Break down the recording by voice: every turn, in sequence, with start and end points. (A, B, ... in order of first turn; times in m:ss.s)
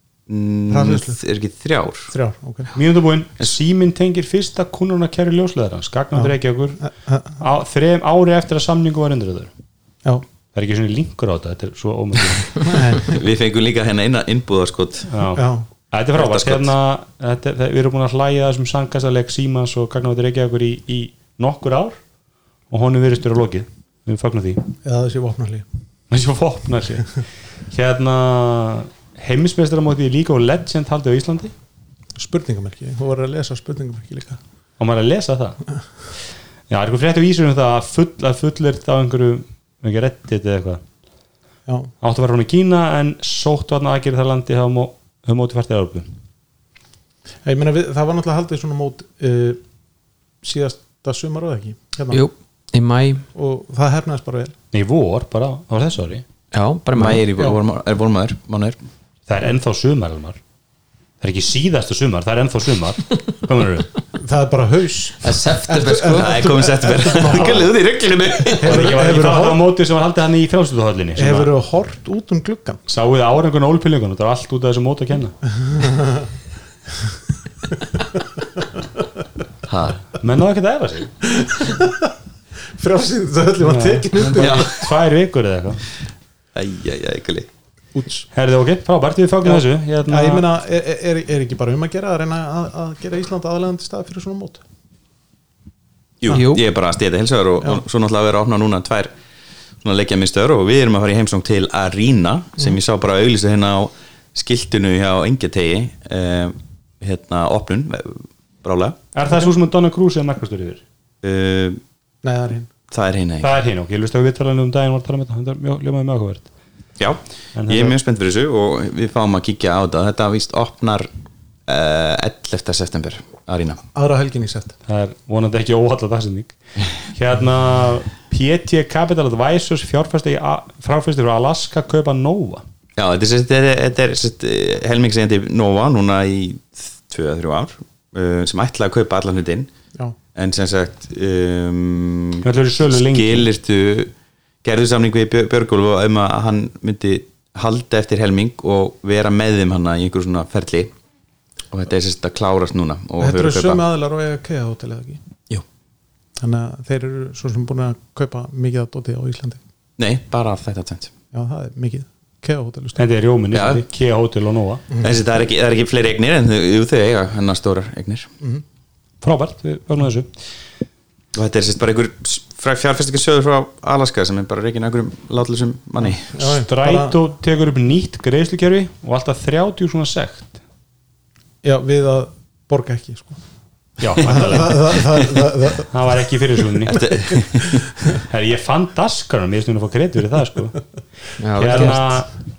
0:00.3-0:02.1 A
0:00.7-0:01.2 B
0:02.1-0:02.7 B
0:02.7-0:06.9 C
0:06.1-0:07.4 B
0:07.4-0:09.5 C
0:10.5-0:12.9 C
0:12.6-0:13.2 B
0:13.0-0:15.1 A
0:15.1-0:22.0 C
0:15.3-0:15.6 B
0:16.2-0:16.7 A
0:22.7-0:24.7 C
0:24.8-0:25.6 B
0:26.1-0:27.2 C
0:27.7-0:31.5 C
0:32.2-0:34.4 B
0:34.8-0:35.6 C
0:36.7-0:40.8 C
0:42.0-0:46.1 C
0:47.4-0:49.6 B
0:50.4-0:52.2 B
0:52.1-0:53.2 D
0:53.3-0:54.5 B
0:54.7-0:56.2 C
0:56.5-0:57.2 D
0:56.9-0:58.8 A
0:59.3-1:00.4 C
1:01.2-1:03.9 C
1:04.1-1:07.7 B
1:05.2-1:06.4 D
1:06.1-1:08.9 A
1:08.6-1:09.6 B
1:08.6-1:11.5 C
1:11.2-1:12.8 B
1:12.9-1:15.3 C
1:15.6-1:16.3 B
1:17.8-1:18.6 B
1:19.6-1:20.0 A
1:20.1-1:21.1 C
1:21.3-1:22.1 B
1:22.8-1:24.9 B
1:23.6-1:25.8 C
1:24.2-1:24.8 A
1:26.5-1:27.5 A
1:27.9-1:28.3 B
1:28.3-1:30.4 C
1:29.4-1:34.6 B
1:36.2-1:39.1 A
1:36.3-1:36.6 D
1:39.8-1:49.0 A
1:49.1-1:50.8 C
1:49.2-1:49.5 B
1:51.2-1:51.8 A
1:52.2-1:52.7 B
1:52.9-1:53.5 A
1:53.4-1:56.5 C
1:57.0-2:01.1 A
1:57.5-1:58.0 C
2:01.7-2:03.8 A
2:03.9-2:04.7 B
2:04.9-2:12.6 C
2:13.0-2:19.7 A
2:20.3-2:24.1 A
2:22.4-2:23.5 C
2:24.6-2:30.9 A
2:31.7-2:33.8 A
2:33.2-2:35.2 B
2:36.4-2:39.6 B
2:40.0-2:41.1 A
2:41.3-2:43.1 B
2:43.0-2:44.8 C
2:43.5-2:43.8 A
2:45.0-2:48.3 A
2:49.2-2:50.3 C
2:51.3-2:56.4 A
2:56.0-2:57.2 B
2:56.4-3:00.6 C
3:01.6-3:03.4 B
3:04.0-3:07.0 C
3:04.1-3:05.9 B
3:06.8-3:07.9 A
3:08.2-3:10.8 C
3:11.4-3:12.2 D
3:11.6-3:12.3 C
3:11.6-3:12.0 B